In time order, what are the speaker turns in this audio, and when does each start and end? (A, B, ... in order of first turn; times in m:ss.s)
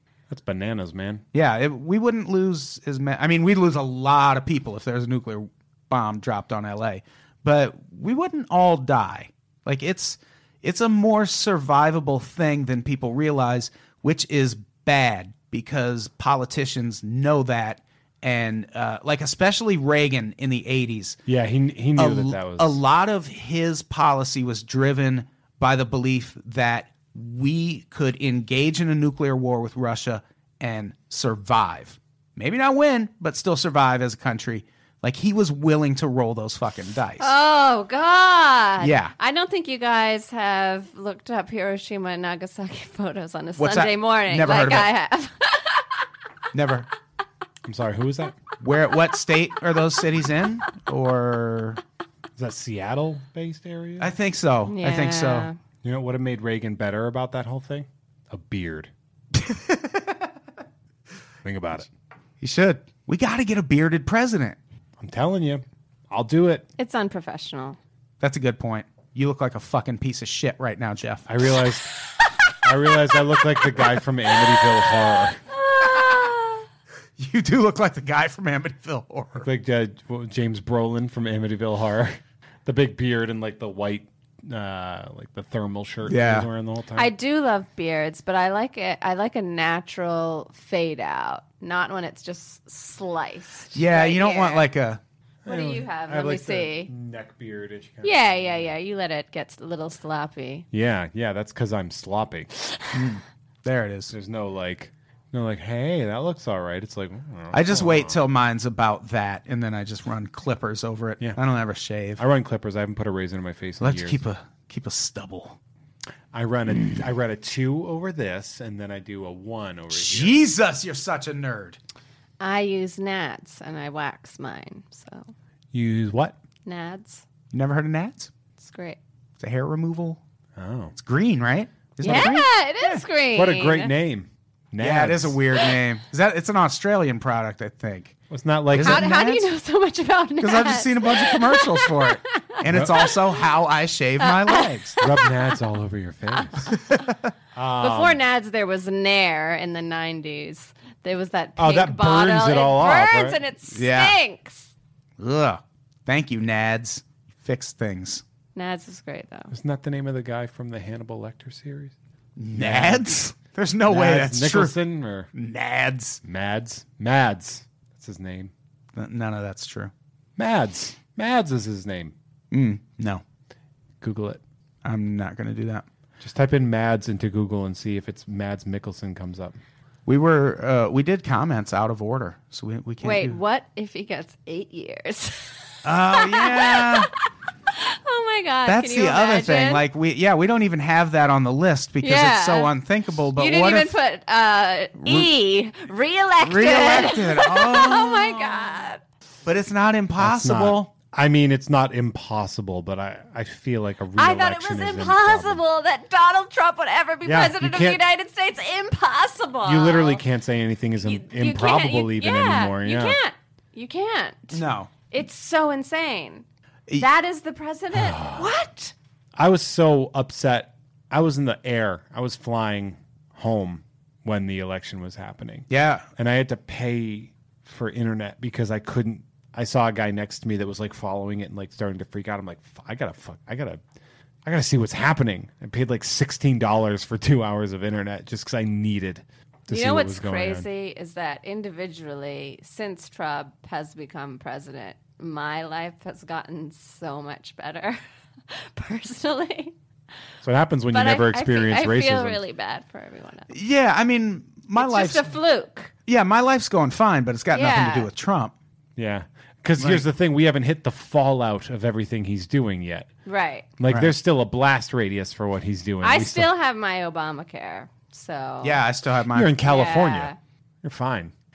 0:00.3-0:01.2 A
0:01.3-0:21.2 B
0:21.3-0:22.8 A
0:22.0-0:37.3 B
0:37.2-0:46.0 C
0:38.8-0:39.1 B
0:43.6-0:44.9 B
0:46.5-0:46.9 B
0:47.6-0:48.4 A
0:48.6-0:51.8 B
0:52.4-0:54.1 A
0:54.0-0:55.5 B
0:54.7-0:55.6 C
0:55.8-0:58.9 A
0:59.4-1:00.2 B
1:01.4-1:01.9 A
1:02.4-1:04.6 B
1:05.0-1:06.7 A
1:06.8-1:07.8 C
1:08.2-1:11.3 B
1:11.3-1:11.9 A
1:12.6-1:15.4 A
1:15.5-1:16.6 C
1:17.2-1:19.5 B
1:19.4-1:27.1 A
1:26.1-1:26.5 B
1:27.0-1:34.7 C
1:33.7-1:35.0 B
1:35.4-1:38.7 A
1:35.5-1:36.9 C
1:38.0-1:40.7 C
1:40.7-1:42.5 A
1:42.9-1:44.1 B
1:44.1-1:48.2 A
1:47.5-1:52.2 B
1:52.2-1:54.2 A
1:53.8-1:55.6 B
1:56.3-2:00.4 A
1:59.9-2:01.8 B
2:02.4-2:05.3 C
2:05.7-2:06.4 A
2:06.6-2:07.2 C
2:07.5-2:08.3 B
2:08.6-2:09.0 C
2:09.4-2:10.2 B
2:10.6-2:10.9 A
2:11.0-2:13.0 B
2:12.0-2:13.9 C
2:13.4-2:15.4 A
2:14.8-2:18.2 B
2:18.3-2:19.1 A
2:18.7-2:19.5 B
2:18.8-2:23.2 C
2:20.4-2:25.0 B
2:22.7-2:23.1 A
2:24.2-2:25.6 C
2:25.0-2:26.8 A
2:26.8-2:27.1 B
2:27.6-2:28.2 A
2:27.8-2:34.7 C
2:31.6-2:33.4 A
2:33.7-2:34.2 B
2:35.2-2:38.2 B
2:38.6-2:39.5 C
2:39.5-2:41.9 A
2:42.4-2:44.8 B
2:42.6-2:43.2 A
2:43.9-2:45.3 A
2:45.3-2:46.2 B
2:46.2-2:48.5 A
2:49.0-2:49.9 B
2:50.4-2:52.1 A
2:52.5-2:53.2 B
2:54.0-2:54.4 A
2:54.8-2:55.8 B
2:56.2-2:59.6 A
3:00.1-3:03.4 B
3:03.0-3:07.1 C
3:05.8-3:07.1 B
3:07.7-3:09.8 C
3:08.7-3:14.0 B
3:12.0-3:12.7 C
3:13.4-3:19.0 C
3:15.0-3:15.3 B
3:16.4-3:18.7 B
3:19.4-3:20.9 B
3:20.2-3:25.6 A
3:24.2-3:30.2 C
3:27.2-3:28.0 A
3:29.6-3:33.2 A
3:31.0-3:36.4 C
3:34.5-3:34.9 B
3:37.0-3:38.9 C
3:37.9-3:38.5 A
3:39.4-3:53.8 A
3:45.7-3:46.1 B
3:54.4-4:00.7 A
3:59.7-4:09.7 C
4:10.4-4:12.4 A
4:10.9-4:13.5 C
4:13.5-4:15.3 B
4:14.8-4:15.9 C
4:16.1-4:18.5 B
4:17.5-4:18.1 C
4:19.0-4:23.1 A
4:19.8-4:20.0 B
4:23.2-4:23.7 C
4:23.8-4:26.5 A
4:26.0-4:28.8 C
4:28.6-4:29.6 B
4:29.3-4:30.3 A
4:29.6-4:30.4 C
4:30.8-4:31.3 A